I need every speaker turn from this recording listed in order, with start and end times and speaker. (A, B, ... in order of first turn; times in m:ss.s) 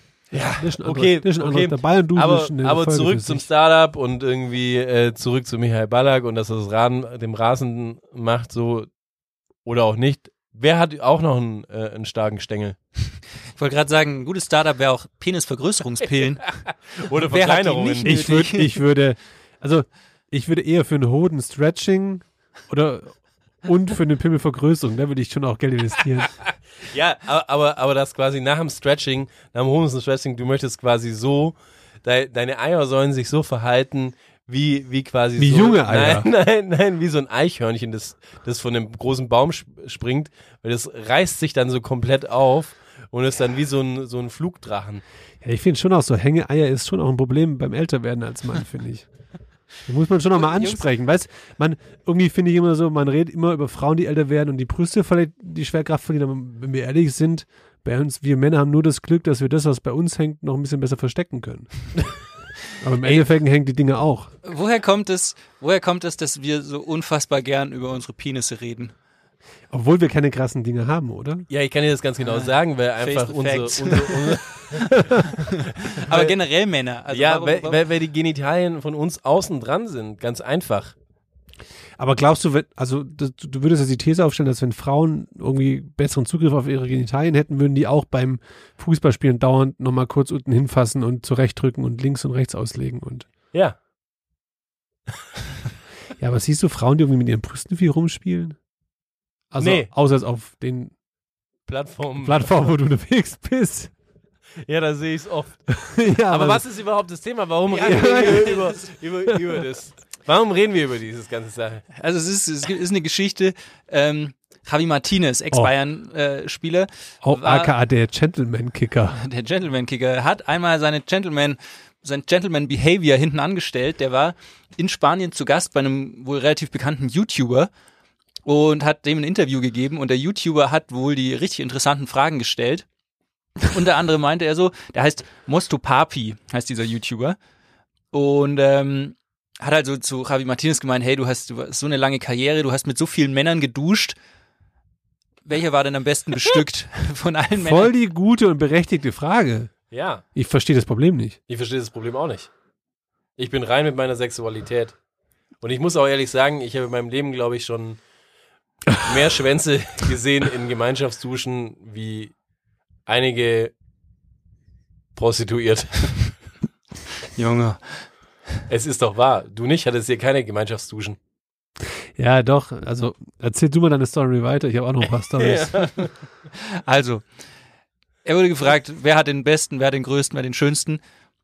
0:00.3-0:08.9 A
0:00.6-0:03.5 B
0:09.6-0:12.8 A
0:13.6-0:16.6 C
0:17.0-0:18.1 A
0:17.3-0:18.7 C
0:18.0-0:26.3 B
0:26.9-0:45.0 A
0:35.4-0:36.3 B
0:45.4-0:49.1 B
0:49.8-1:01.7 B
0:50.5-0:50.8 C
1:02.8-1:04.3 B
1:04.4-1:08.9 C
1:09.7-1:11.5 B
1:11.5-1:15.1 A
1:12.2-1:17.8 C
1:16.0-1:16.3 A
1:17.1-1:20.9 A
1:22.0-1:33.3 B
1:36.2-1:38.6 B
1:39.5-1:40.9 B
1:39.6-1:39.9 A
1:41.7-1:42.6 A
1:42.2-1:43.9 B
1:44.6-1:45.6 A
1:45.7-1:46.6 B
1:46.3-1:51.8 A
1:47.7-1:48.7 B
1:48.0-1:48.6 C
1:51.9-1:57.7 C
1:57.2-1:59.2 B
1:59.2-2:07.7 C
2:08.4-2:12.8 C
2:13.6-2:17.4 C
2:18.1-2:24.2 C
2:25.4-2:27.9 C
2:27.6-2:29.7 B
2:29.9-2:30.2 A
2:30.3-2:31.4 B
2:31.5-2:32.5 A
2:33.4-2:35.0 A
2:35.6-2:38.0 A
2:39.0-2:42.3 A
2:43.0-2:43.7 A
2:45.2-2:46.1 A
2:47.4-2:48.0 C
2:48.7-2:51.2 A
2:52.2-2:55.8 B
2:55.4-2:56.1 A
2:56.6-2:57.2 C
2:58.2-3:01.0 C